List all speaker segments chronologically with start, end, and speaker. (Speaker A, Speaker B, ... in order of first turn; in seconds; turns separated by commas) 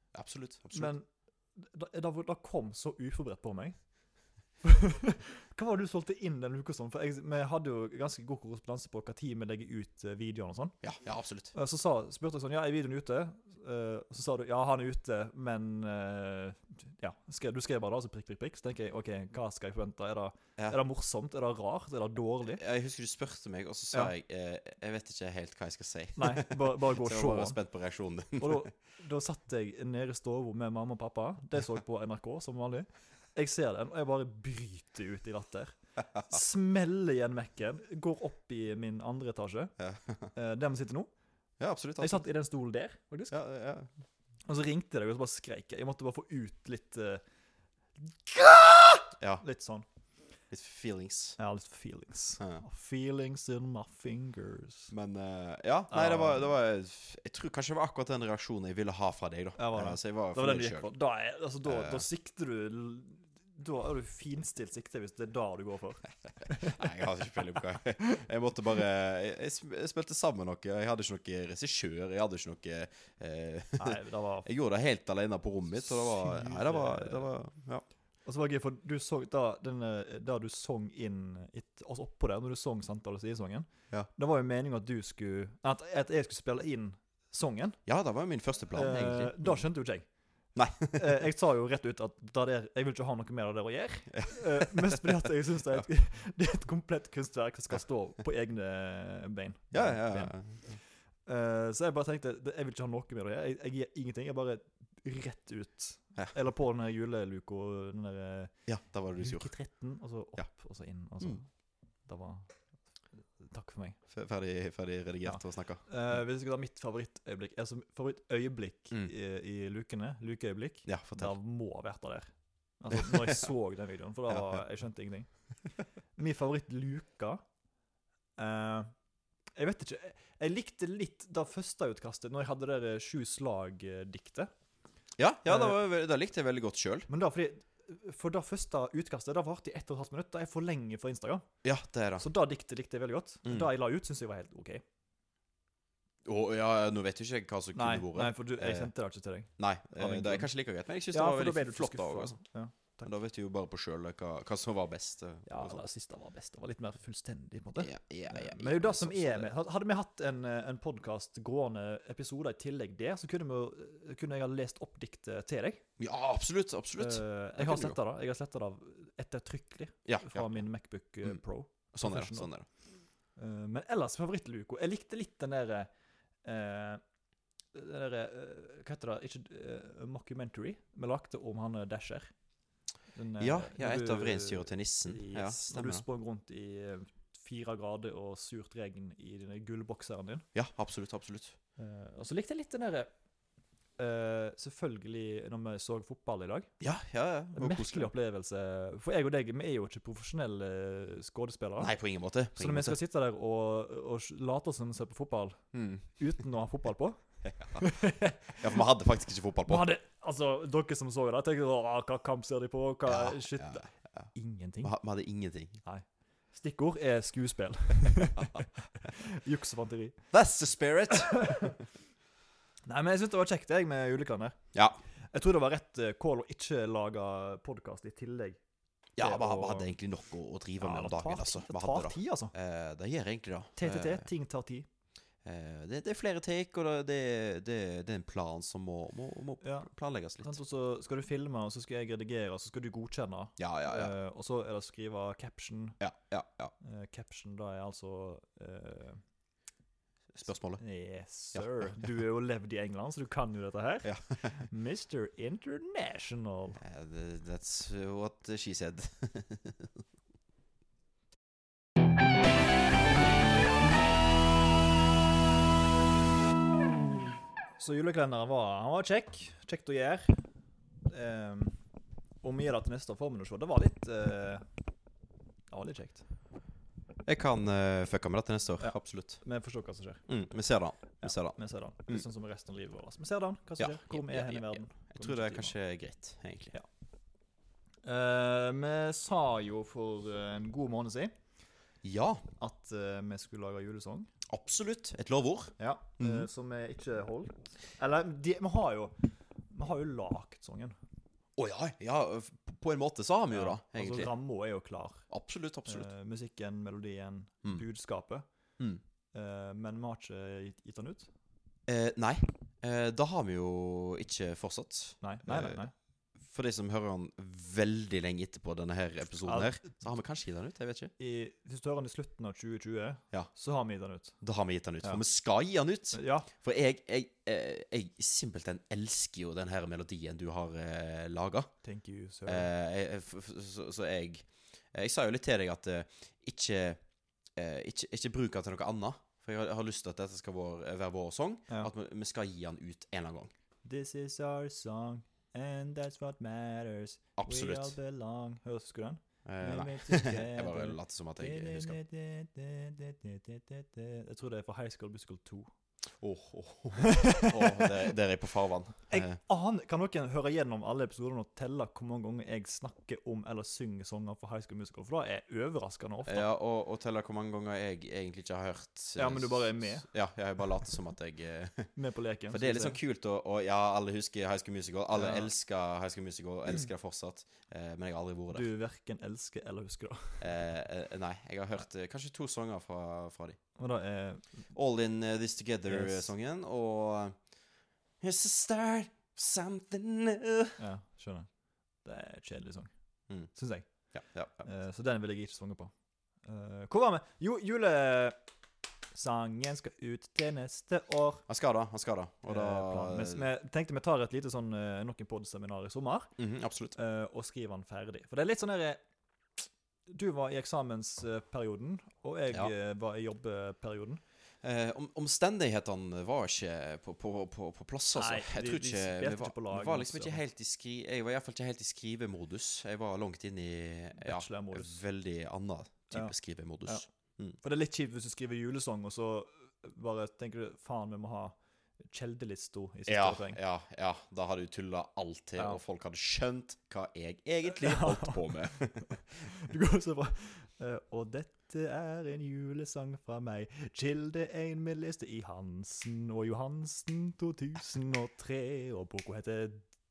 Speaker A: 0.1-0.9, Speaker B: 0.7-3.8, Speaker B: 4.6-10.8, Speaker A: 10.8-11.5, Speaker B: 11.5-22.6, Speaker A: 22.6-28.7, Speaker B: 26.2-27.6, Speaker B: 28.4-39.7, Speaker A: 39.8-40.3, Speaker B: 40.3-41.1, Speaker A: 41.6-42.2, Speaker B: 42.0-43.4, Speaker A: 43.3-43.9, Speaker B: 44.5-47.2, Speaker B: 48.0-49.8, Speaker A: 50.5-51.4, Speaker B: 51.4-54.9, Speaker A: 54.9-60.9, Speaker B: 55.9-56.5, Speaker B: 59.6-66.9, Speaker A: 61.6-62.0, Speaker A: 66.6-77.8, Speaker B: 73.8-74.5, Speaker B: 75.8-77.3, Speaker B: 78.2-87.8, Speaker A: 87.8-89.6, Speaker B: 88.7-90.0, Speaker A: 90.5-91.2, Speaker B: 90.9-100.4, Speaker A: 94.2-95.0, Speaker A: 99.7-100.8, Speaker B: 101.2-108.5, Speaker A: 108.7-109.5, Speaker B: 109.2-111.5, Speaker B: 112.0-112.5, Speaker B: 113.4-114.0, Speaker A: 114.1-115.8, Speaker B: 115.2-125.3, Speaker A: 120.8-121.3, Speaker A: 122.9-123.5, Speaker A: 124.3-124.6, Speaker B: 126.2-127.4, Speaker B: 128.4-128.9, Speaker B: 129.6-134.5, Speaker A: 135.2-137.1, Speaker B: 135.4-135.8, Speaker B: 137.1-141.4, Speaker A: 141.6-142.2, Speaker B: 142.2-144.8, Speaker A: 143.4-143.7, Speaker A: 146.2-148.9, Speaker B: 147.7-150.5, Speaker A: 149.6-152.4, Speaker B: 151.1-153.1, Speaker A: 153.0-155.8, Speaker B: 155.5-165.8, Speaker A: 157.8-159.5, Speaker A: 166.0-168.0, Speaker B: 167.0-172.5, Speaker A: 170.1-170.6, Speaker A: 171.9-172.7, Speaker B: 173.3-175.9, Speaker B: 176.4-177.0, Speaker B: 177.7-182.3, Speaker B: 183.1-190.4, Speaker A: 183.4-186.0, Speaker A: 190.5-191.6, Speaker B: 191.8-193.1, Speaker B: 194.0-196.7, Speaker A: 196.8-198.1, Speaker B: 197.5-201.9, Speaker A: 201.8-202.9, Speaker B: 202.6-208.7, Speaker A: 205.7-206.1, Speaker A: 207.4-207.9, Speaker A: 208.6-209.9, Speaker B: 209.7-214.9, Speaker A: 213.1-214.3, Speaker A: 214.8-215.8, Speaker B: 215.8-220.2, Speaker A: 218.4-218.7, Speaker A: 220.3-221.7, Speaker B: 221.1-221.8, Speaker B: 222.8-224.6, Speaker A: 224.7-225.0, Speaker B: 225.3-228.6, Speaker A: 229.2-234.2, Speaker B: 229.2-229.9, Speaker B: 230.8-232.5, Speaker B: 233.8-234.9, Speaker A: 235.4-240.6, Speaker B: 239.6-239.9, Speaker B: 240.4-246.0, Speaker A: 243.6-244.1, Speaker A: 246.0-246.7, Speaker B: 246.8-249.2, Speaker A: 250.3-250.8, Speaker B: 250.8-256.8, Speaker A: 254.0-254.5, Speaker A: 256.8-260.0, Speaker B: 267.8-270.4, Speaker B: 271.1-271.8, Speaker B: 272.4-274.6, Speaker B: 275.7-276.2, Speaker A: 277.2-279.4, Speaker B: 278.8-280.3, Speaker A: 280.3-281.6, Speaker B: 281.2-285.7, Speaker A: 283.8-286.7, Speaker B: 288.0-291.3, Speaker A: 292.0-292.4, Speaker B: 292.6-294.3, Speaker A: 294.5-296.5, Speaker B: 295.8-299.1, Speaker B: 299.7-300.9, Speaker A: 301.6-304.3, Speaker B: 303.5-305.2, Speaker A: 305.3-306.1, Speaker B: 305.9-308.4, Speaker B: 309.3-311.3, Speaker A: 311.9-315.8, Speaker B: 315.2-315.9, Speaker A: 316.4-321.1, Speaker B: 319.4-319.9, Speaker B: 321.2-324.4, Speaker A: 324.4-331.7, Speaker B: 326.1-326.5, Speaker B: 331.8-332.7, Speaker A: 332.4-337.0, Speaker A: 337.6-343.5, Speaker B: 343.8-355.7, Speaker A: 347.4-347.9, Speaker A: 349.4-352.0, Speaker A: 356.2-359.4, Speaker B: 357.0-357.9, Speaker B: 359.1-366.5, Speaker A: 366.2-371.9, Speaker B: 369.1-370.1, Speaker B: 371.9-373.0, Speaker A: 372.5-378.7, Speaker B: 375.1-375.5, Speaker B: 378.5-380.5, Speaker A: 380.4-383.6, Speaker B: 383.8-384.6, Speaker A: 384.7-387.4, Speaker B: 385.9-386.3, Speaker A: 388.2-390.8, Speaker B: 390.8-391.5, Speaker B: 392.0-392.9, Speaker B: 393.5-393.9, Speaker A: 394.1-394.7, Speaker B: 394.6-395.9, Speaker B: 396.4-398.4, Speaker B: 399.1-401.4, Speaker A: 401.5-403.4, Speaker B: 402.5-406.3, Speaker A: 406.4-406.9, Speaker B: 406.9-409.0, Speaker B: 410.1-414.2, Speaker A: 414.6-427.6, Speaker B: 418.1-420.4, Speaker B: 424.2-425.0, Speaker B: 427.6-431.6, Speaker B: 432.1-433.6, Speaker A: 433.1-439.5, Speaker B: 437.7-438.6, Speaker B: 439.4-449.9